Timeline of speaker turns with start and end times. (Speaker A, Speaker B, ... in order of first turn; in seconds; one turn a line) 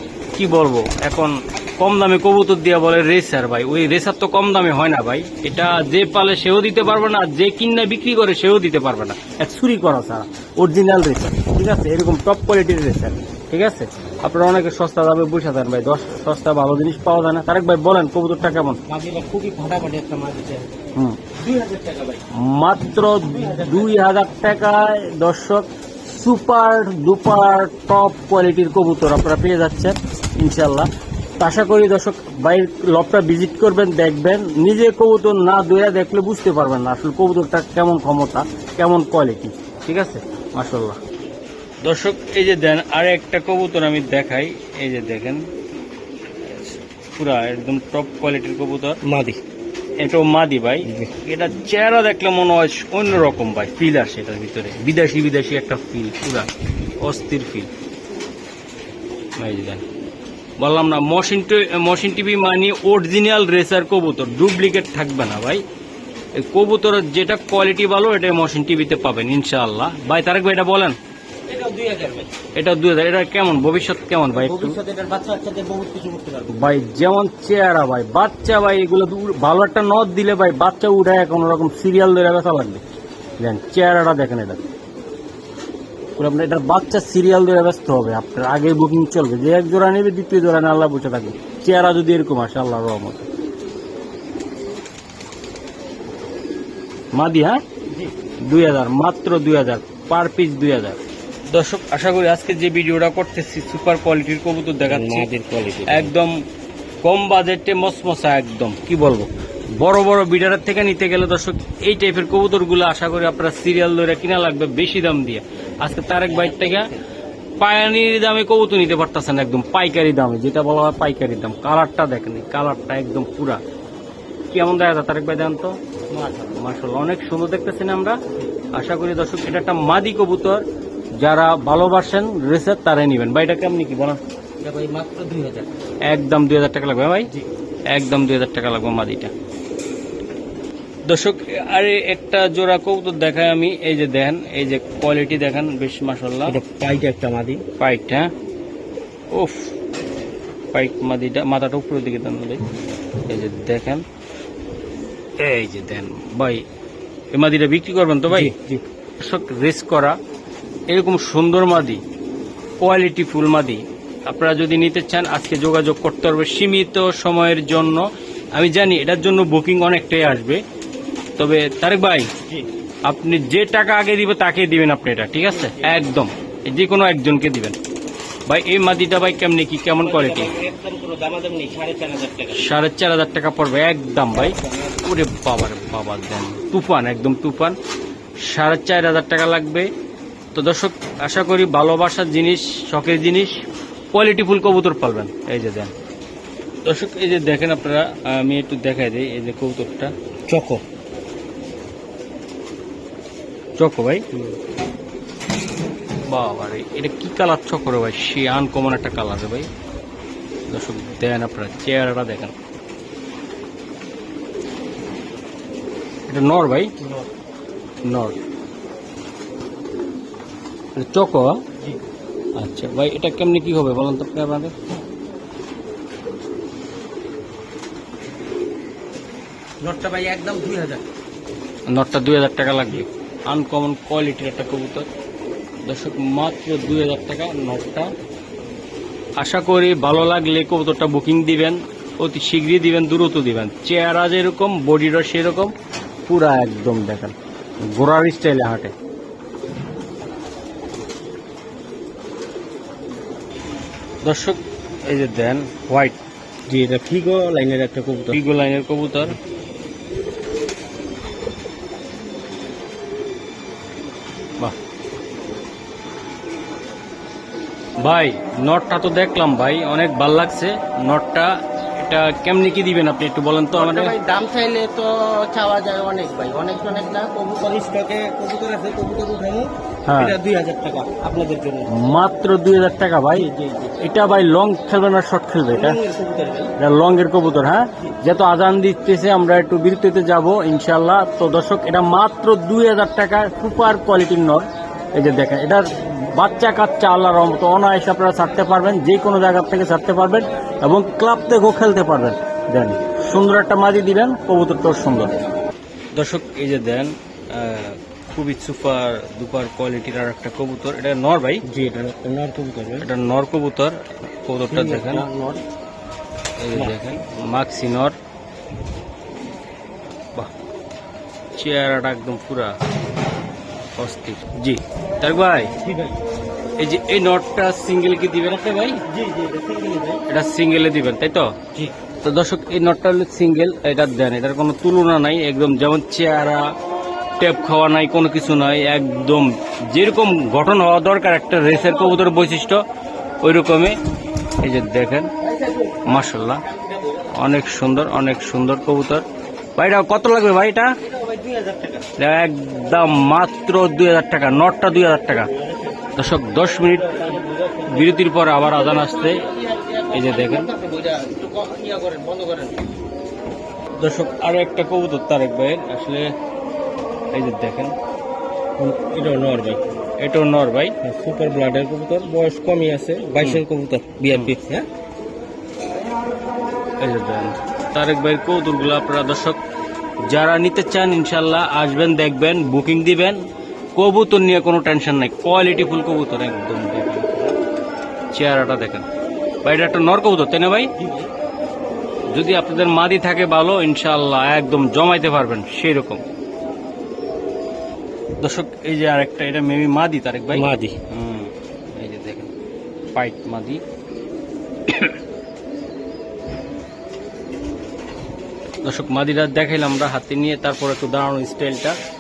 Speaker A: 0.4-18.8
Speaker B: 18.9-20.8
Speaker B: 21.3-22.2
Speaker A: 22.3-30.9
Speaker B: 23.2-24.1
Speaker A: 31.4-41.0
Speaker A: 41.8-45.5
Speaker A: 46.4-49.0
Speaker B: 49.0-49.4
Speaker A: 50.0-56.5
Speaker B: 50.8-51.1
Speaker A: 57.0-57.7
Speaker A: 59.4-59.9
Speaker A: 60.6-65.6
Speaker A: 66.4-71.0
Speaker B: 71.5-72.3
Speaker A: 72.5-74.8
Speaker B: 74.3-76.6
Speaker A: 76.5-82.8
Speaker A: 83.4-84.6
Speaker A: 86.2-93.3
Speaker A: 97.2-97.6
Speaker A: 98.4-105.3
Speaker B: 104.8-106.1
Speaker A: 105.9-106.4
Speaker A: 107.0-116.9
Speaker B: 116.1-117.0
Speaker A: 117.6-123.6
Speaker A: 124.5-125.8
Speaker B: 126.1-126.6
Speaker A: 126.5-128.2
Speaker A: 128.7-130.6
Speaker A: 131.2-134.2
Speaker B: 134.6-135.7
Speaker A: 136.1-137.3
Speaker A: 137.9-139.3
Speaker A: 141.1-146.6
Speaker B: 146.5-147.6
Speaker A: 147.8-148.3
Speaker A: 149.3-149.8
Speaker A: 150.7-152.6
Speaker A: 153.3-154.0
Speaker A: 155.4-156.6
Speaker A: 157.3-158.5
Speaker B: 158.3-158.8
Speaker A: 159.2-160.2
Speaker A: 160.9-162.0
Speaker A: 162.8-168.1
Speaker A: 168.6-170.6
Speaker A: 171.4-172.3
Speaker A: 173.1-177.8
Speaker B: 175.5-176.1
Speaker A: 178.5-180.5
Speaker B: 180.0-182.7
Speaker A: 182.5-187.8
Speaker B: 184.3-185.0
Speaker A: 188.4-189.9
Speaker A: 190.5-195.9
Speaker A: 196.8-200.1
Speaker B: 200.5-200.8
Speaker A: 203.8-204.2
Speaker A: 206.3-209.7
Speaker A: 210.7-212.5
Speaker A: 216.3-216.9
Speaker B: 217.0-217.3
Speaker A: 218.1-218.4
Speaker A: 221.0-221.6
Speaker A: 222.6-224.7
Speaker B: 229.8-231.0
Speaker A: 231.9-235.1
Speaker A: 235.9-238.1
Speaker A: 239.4-245.7
Speaker A: 246.3-248.9
Speaker A: 254.2-256.2
Speaker B: 256.7-258.4
Speaker A: 258.3-259.4
Speaker A: 268.0-274.1
Speaker B: 273.7-281.9
Speaker A: 280.1-280.4
Speaker A: 281.9-283.5
Speaker B: 283.3-284.0
Speaker A: 284.0-286.0
Speaker B: 285.7-286.7
Speaker A: 286.8-305.3
Speaker A: 306.1-311.6
Speaker B: 311.6-313.1
Speaker A: 313.0-315.3
Speaker B: 314.7-315.6
Speaker A: 316.6-318.2
Speaker B: 316.7-317.2
Speaker A: 321.6-322.8
Speaker A: 324.0-325.7
Speaker B: 325.8-326.2
Speaker A: 326.8-329.0
Speaker B: 329.1-330.2
Speaker A: 330.3-331.5
Speaker A: 332.2-336.7
Speaker A: 337.4-342.8
Speaker A: 343.4-344.0
Speaker A: 344.6-345.3
Speaker B: 345.4-347.4
Speaker A: 346.1-346.6
Speaker A: 347.3-349.2
Speaker A: 349.8-351.0
Speaker B: 351.0-352.1
Speaker A: 352.2-355.5
Speaker B: 355.3-356.1
Speaker A: 356.2-359.4
Speaker B: 356.7-362.9
Speaker A: 360.1-360.7
Speaker A: 364.0-366.3
Speaker A: 367.3-367.9
Speaker B: 368.8-369.8
Speaker A: 370.2-370.9
Speaker B: 371.0-374.9
Speaker A: 377.0-379.6
Speaker A: 380.3-383.4
Speaker A: 384.0-387.6
Speaker A: 388.3-389.1
Speaker A: 389.6-390.9
Speaker B: 391.0-391.3
Speaker A: 392.3-396.2
Speaker A: 398.4-402.5
Speaker B: 400.5-401.0
Speaker A: 403.1-403.8
Speaker A: 404.9-405.1
Speaker A: 408.9-412.0